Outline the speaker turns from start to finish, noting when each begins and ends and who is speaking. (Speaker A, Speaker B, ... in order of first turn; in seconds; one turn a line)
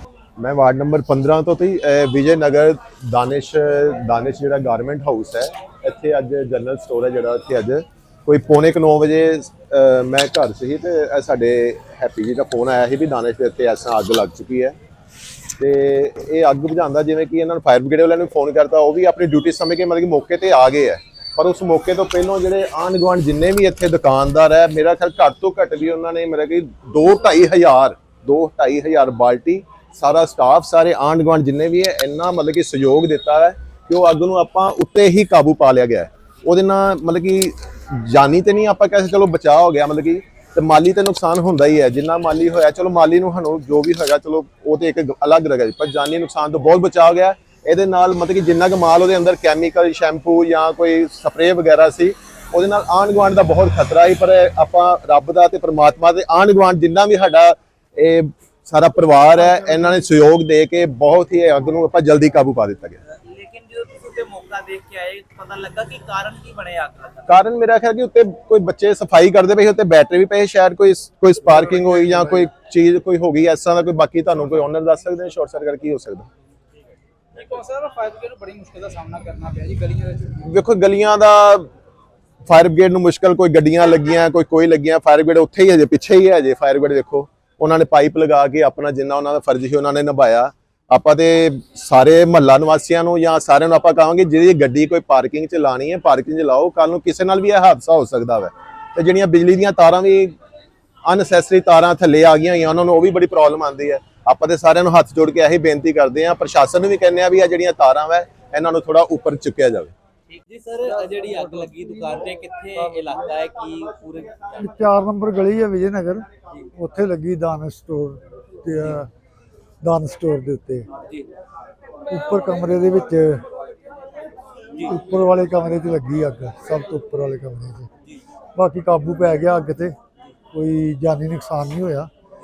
Speaker A: 0.4-14.8
Speaker A: 15.6-63.0
Speaker B: 63.1-67.4
Speaker A: 67.3-76.3
Speaker C: 77.3-80.3
Speaker A: 80.4-81.7
Speaker A: 82.5-100.4
Speaker A: 101.0-109.9
Speaker B: 110.3-114.3
Speaker D: 114.6-119.1
Speaker D: 119.8-120.9
Speaker D: 122.1-123.4
Speaker D: 124.8-127.9
Speaker D: 128.6-129.9
Speaker D: 130.5-132.1